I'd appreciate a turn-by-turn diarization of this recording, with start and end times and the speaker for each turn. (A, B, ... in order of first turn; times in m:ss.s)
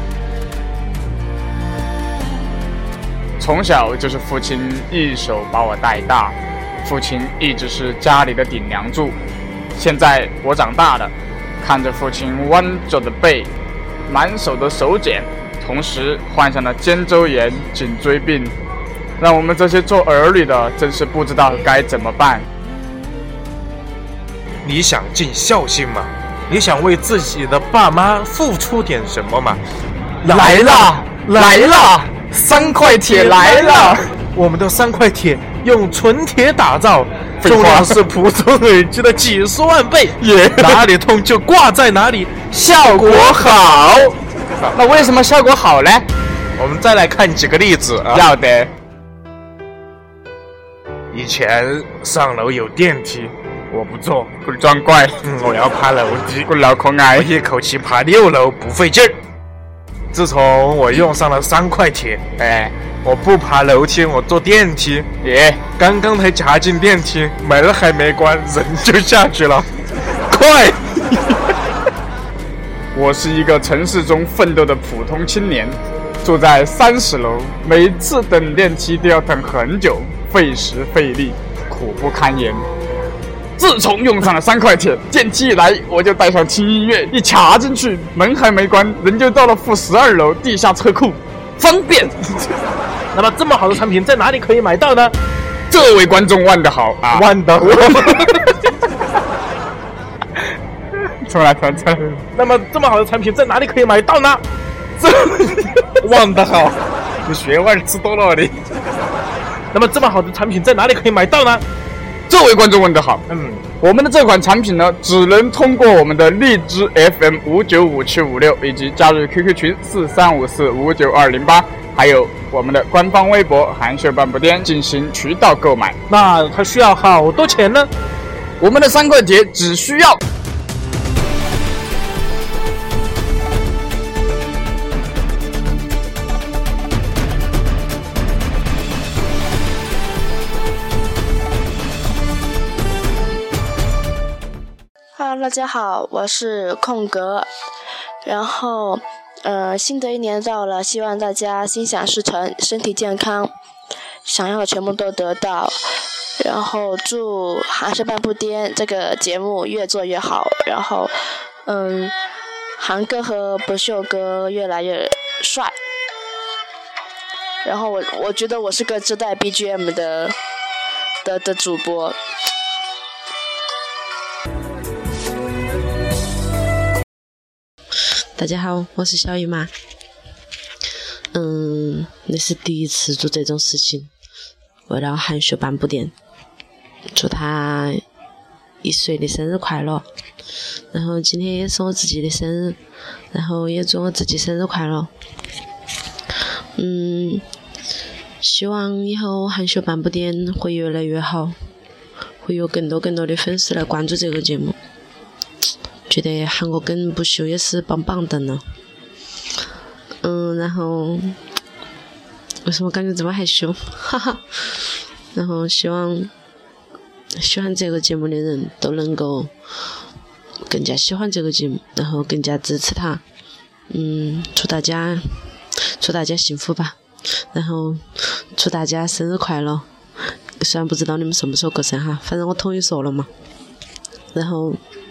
0:03.4-0:09.2 A
0:09.8-0:13.5 A
0:14.1-0:18.5 A
0:19.2-0:22.4 A
0:24.6-0:29.6 B
0:30.2-0:43.7 B
0:30.2-0:34.1 A
0:37.4-0:38.0 A
0:40.2-0:40.9 A
0:42.6-0:44.2 A
0:44.7-0:46.1 A
0:46.6-0:48.3 B
0:48.1-0:48.7 A
0:51.1-0:54.3 B
0:54.3-0:55.2 A
0:55.2-0:56.5 B
0:56.5-0:57.3 A
0:57.1-0:59.2 B
1:00.1-1:02.2 B
1:02.4-1:02.7 A
1:03.0-1:05.1 B
1:05.2-1:05.6 A
1:05.8-1:11.4 B
1:12.9-1:22.6 A
1:23.6-1:32.2 A
1:33.1-1:35.1 B
1:35.7-1:38.4 A
1:37.1-1:38.5 B
1:41.2-1:42.2 A
1:42.2-1:44.4 B
1:45.0-1:48.5 B
1:49.7-1:51.6 B
1:52.3-1:53.2 A
1:53.3-1:53.6 B
1:53.8-2:06.0 A
2:06.1-2:07.9 B
2:08.6-2:10.2 A
2:25.2-2:27.5 C
2:28.2-2:33.5 C
2:34.2-2:35.9 C
2:36.4-2:42.1 C
2:42.8-2:45.7 C
2:47.6-2:50.3 C
2:51.2-2:52.2 C
2:58.4-2:59.7 D
3:01.3-3:04.1 D
3:04.9-3:06.1 D
3:07.1-3:08.0 D
3:08.8-3:10.0 D
3:10.9-3:12.8 D
3:13.3-3:15.1 D
3:16.8-3:17.4 D
3:18.4-3:21.6 D
3:22.4-3:24.7 D
3:26.1-3:28.6 D
3:30.2-3:31.4 D
3:32.6-3:34.8 D
3:35.3-3:36.3 D
3:37.4-3:39.5 D
3:40.7-3:43.2 D
3:43.9-3:45.5 D
3:46.0-3:53.3 D
3:54.3-3:54.8 D